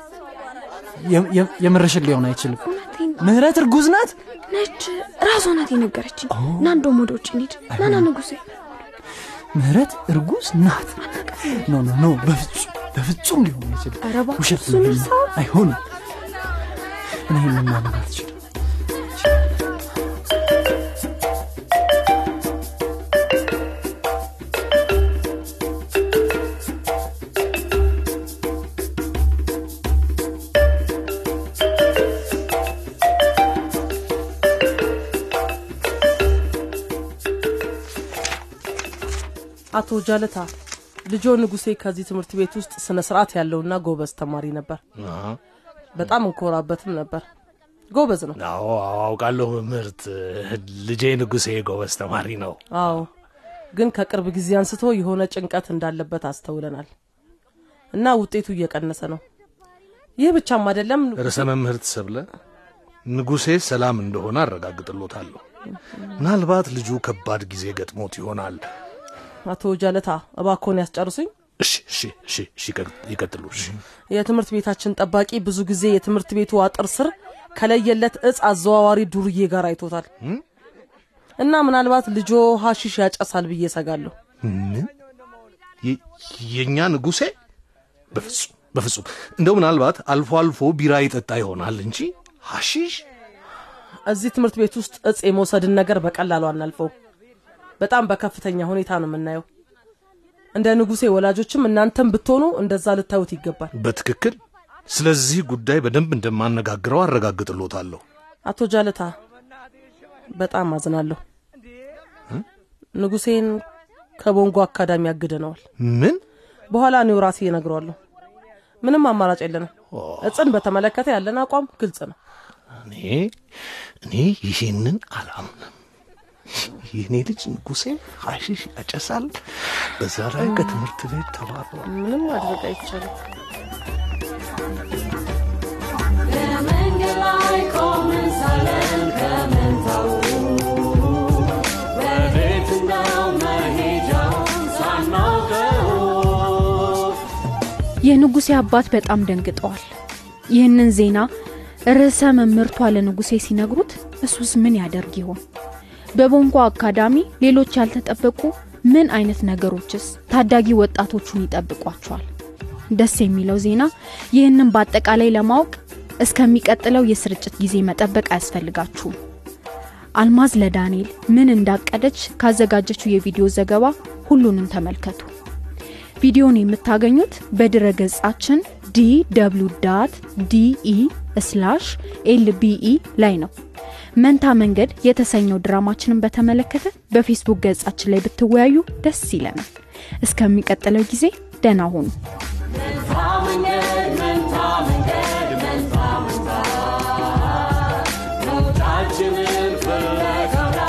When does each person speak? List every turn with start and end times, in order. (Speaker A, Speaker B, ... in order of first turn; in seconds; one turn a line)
Speaker A: 1.0-2.6
Speaker B: 2.6-3.3
Speaker A: 3.2-4.2
Speaker B: 4.5-8.4
Speaker A: 6.3-6.8
Speaker A: 7.7-8.1
Speaker A: 9.5-16.2
Speaker B: 14.0-15.3
Speaker A: 17.1-18.4
Speaker C: 39.7-40.5
Speaker C: 41.1-44.8
Speaker D: 45.0-45.4
Speaker C: 46.0-47.2
Speaker C: 47.9-48.4
Speaker D: 48.4-53.0
Speaker C: 52.7-53.1
Speaker C: 53.7-56.9
Speaker C: 57.9-59.2
Speaker C: 60.2-61.5
Speaker D: 61.2-62.3
Speaker D: 63.1-65.4
Speaker D: 66.2-68.6
Speaker C: 69.5-71.3
Speaker D: 71.6-73.8
Speaker C: 74.1-80.1
Speaker C: 81.4-84.1
Speaker D: 84.4-84.9
Speaker D: 85.8-87.3
Speaker D: 88.1-93.0
Speaker C: 94.1-96.9
Speaker C: 97.8-99.4
Speaker C: 100.5-103.7
Speaker D: 103.8-108.0
Speaker C: 108.5-109.1
Speaker C: 110.3-111.2
Speaker C: 113.0-113.6
Speaker C: 114.2-115.6
Speaker D: 115.8-116.2
Speaker C: 116.7-118.0
Speaker C: 118.8-119.7
Speaker D: 119.9-120.5
Speaker C: 120.2-122.2
Speaker D: 122.8-125.7
Speaker D: 126.5-131.9
Speaker C: 130.4-130.8
Speaker C: 131.9-133.1
Speaker E: 137.2-139.7
Speaker E: 142.3-145.4
Speaker F: 148.0-149.9
Speaker F: 150.5-151.3
Speaker F: 151.9-155.4
Speaker F: 156.2-162.3
Speaker F: 162.9-169.2
Speaker F: 170.2-175.3
Speaker F: 176.2-183.5
Speaker F: 184.2-189.7
Speaker F: 190.2-192.1
Speaker E: 193.4-193.8
Speaker E: 199.0-200.1